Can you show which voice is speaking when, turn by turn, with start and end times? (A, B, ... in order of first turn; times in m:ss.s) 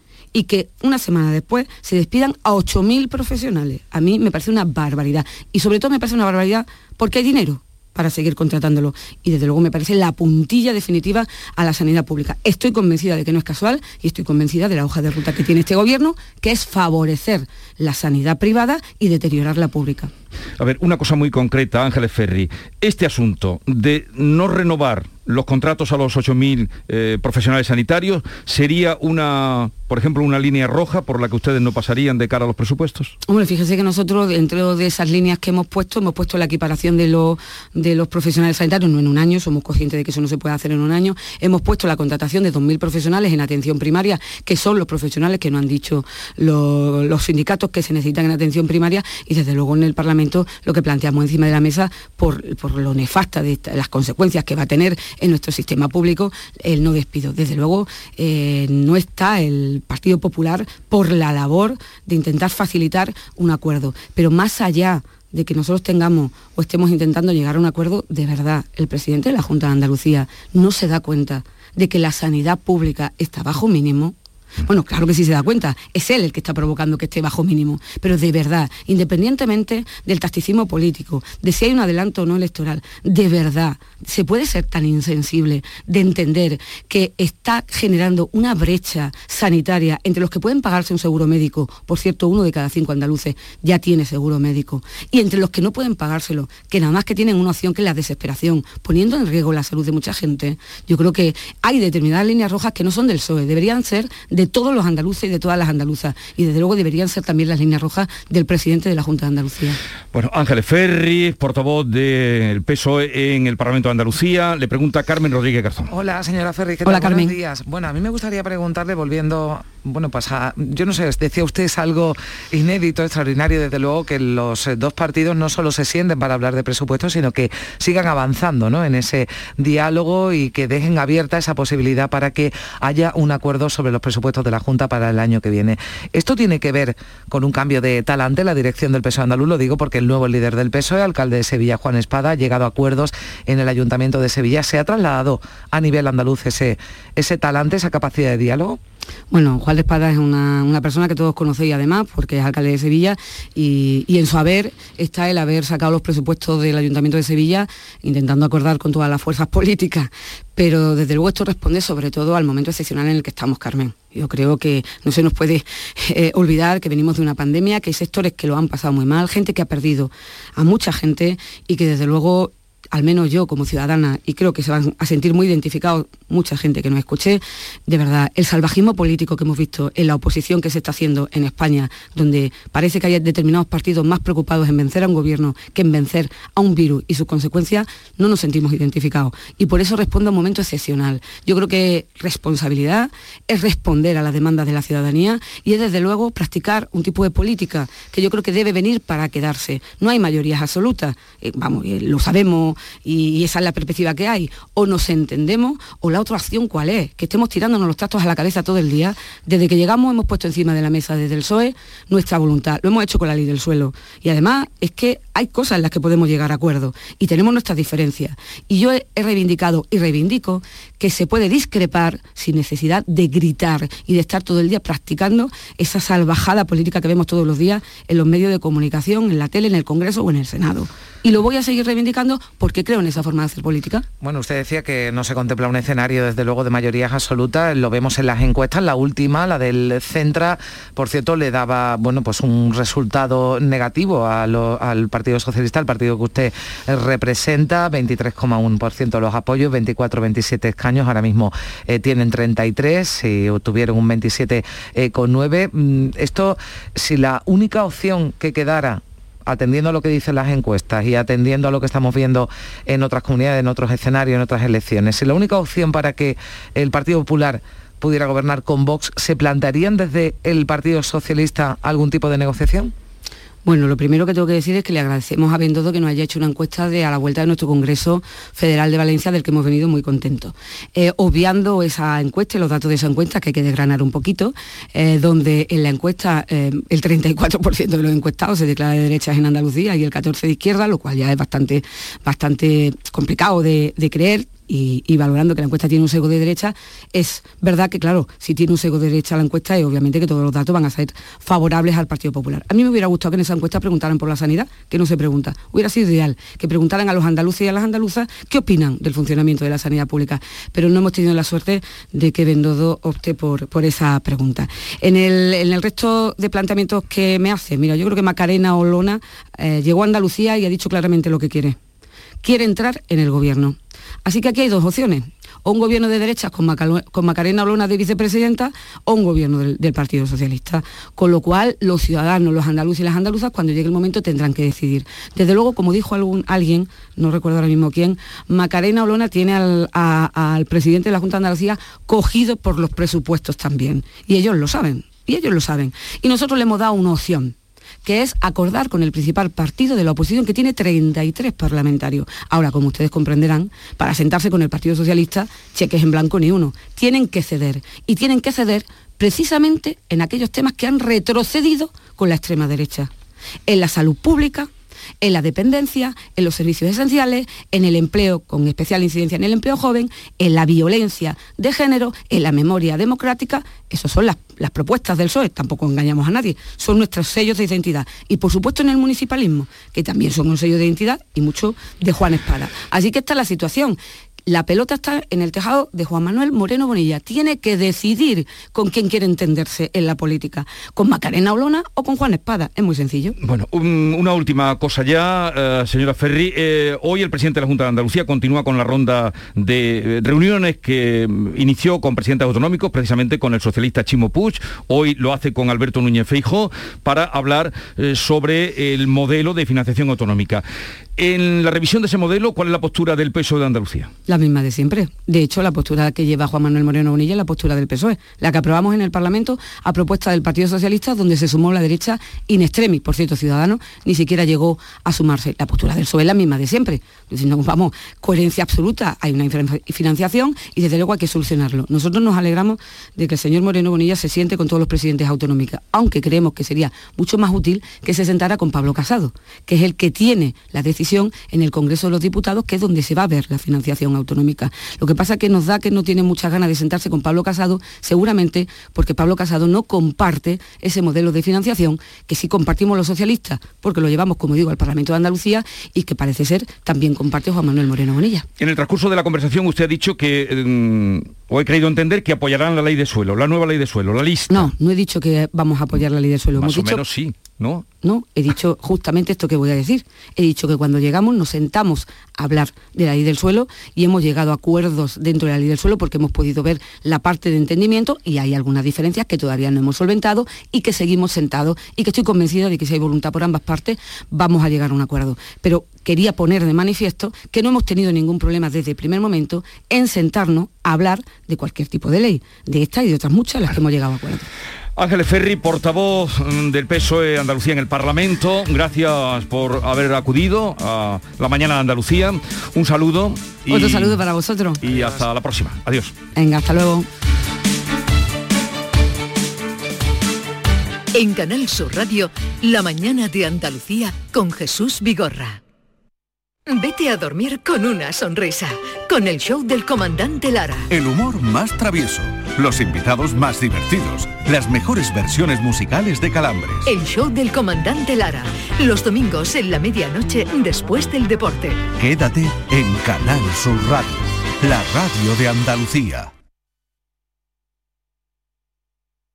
0:00.3-0:20.1 A
0:20.6-0:33.1 B
0:33.3-1:14.1 A
1:14.6-1:49.8 A
1:50.1-1:55.9 B
1:55.9-2:28.8 C
1:56.8-1:57.3 A
2:29.3-3:54.0 A
3:54.2-4:32.9 C
4:33.6-5:21.8 A
5:22.4-6:03.1 A
6:03.7-6:04.7 A
6:05.2-6:33.3 A
6:33.4-6:50.6 B
6:51.2-6:54.1 B
6:54.3-7:38.4 A
7:38.6-7:44.7 B
7:44.5-7:47.0 A
7:46.6-7:47.8 B
7:48.0-8:14.5 A
8:15.0-8:24.2 B
8:23.7-8:24.8 A
8:24.8-8:26.1 B
8:26.4-8:27.1 A
8:31.1-8:35.6 D
8:36.7-8:40.9 D
8:40.9-8:46.9 E
8:46.8-8:51.8 D
8:52.0-8:56.3 E